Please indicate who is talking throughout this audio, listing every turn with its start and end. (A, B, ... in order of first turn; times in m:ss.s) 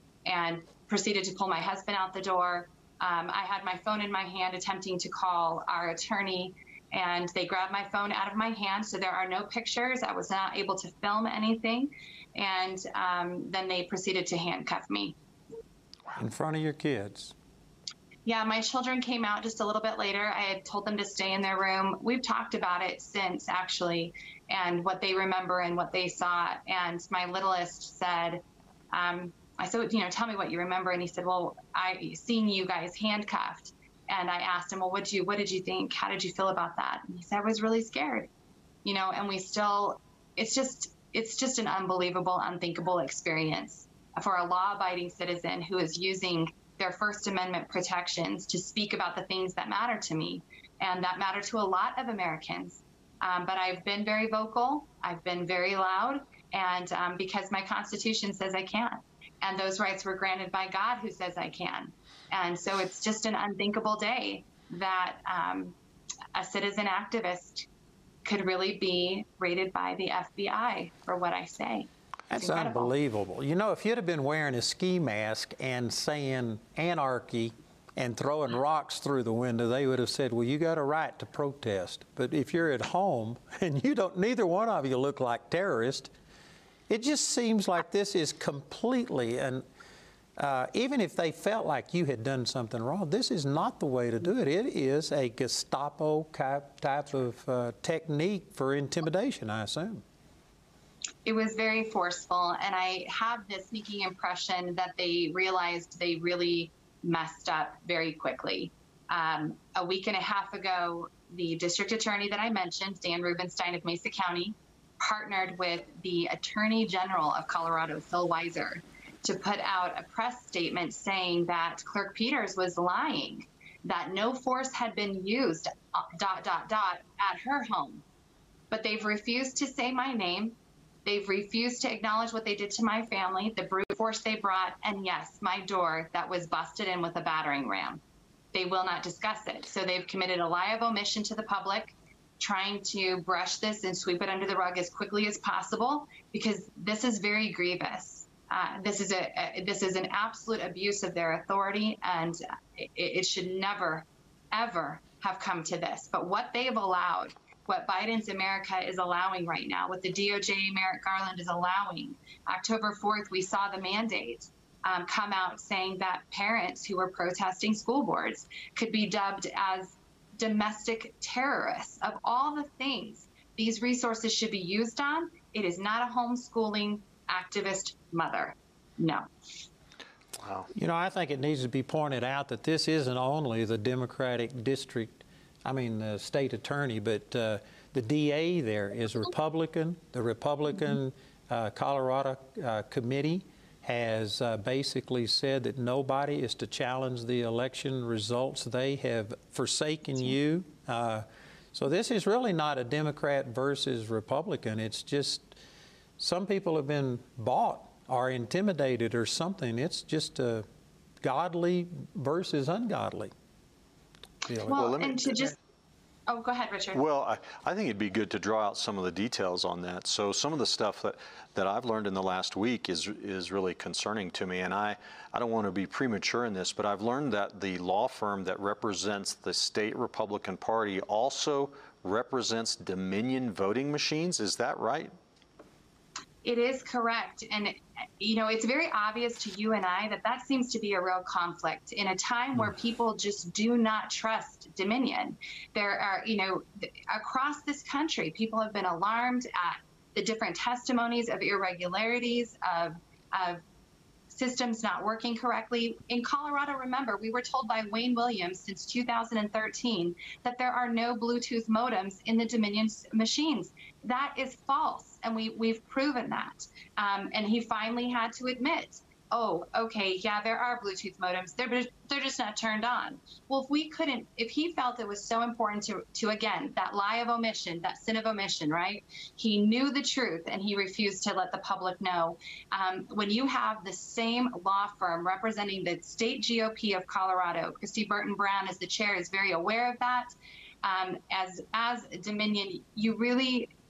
0:00.2-0:15.2 A
0:16.2-0:17.3 B
0:18.2-0:38.3 A
0:38.8-1:05.7 A
1:06.3-1:07.6 A
1:08.2-1:12.9 A
1:12.3-1:26.1 B
1:26.9-1:29.6 B
1:30.4-1:40.0 B
1:41.2-2:08.0 A
2:08.7-2:18.0 A
2:18.5-2:59.3 A
3:00.4-3:00.7 C
3:00.7-3:25.6 B
3:26.2-3:30.6 B
3:31.2-3:33.3 B
3:34.5-3:34.8 B
3:34.6-3:35.6 A
3:34.7-3:35.5 C
3:36.3-3:37.0 A
3:36.9-3:55.1 C
3:56.4-4:13.6 A
4:14.3-4:50.3 A
4:50.8-4:53.7 A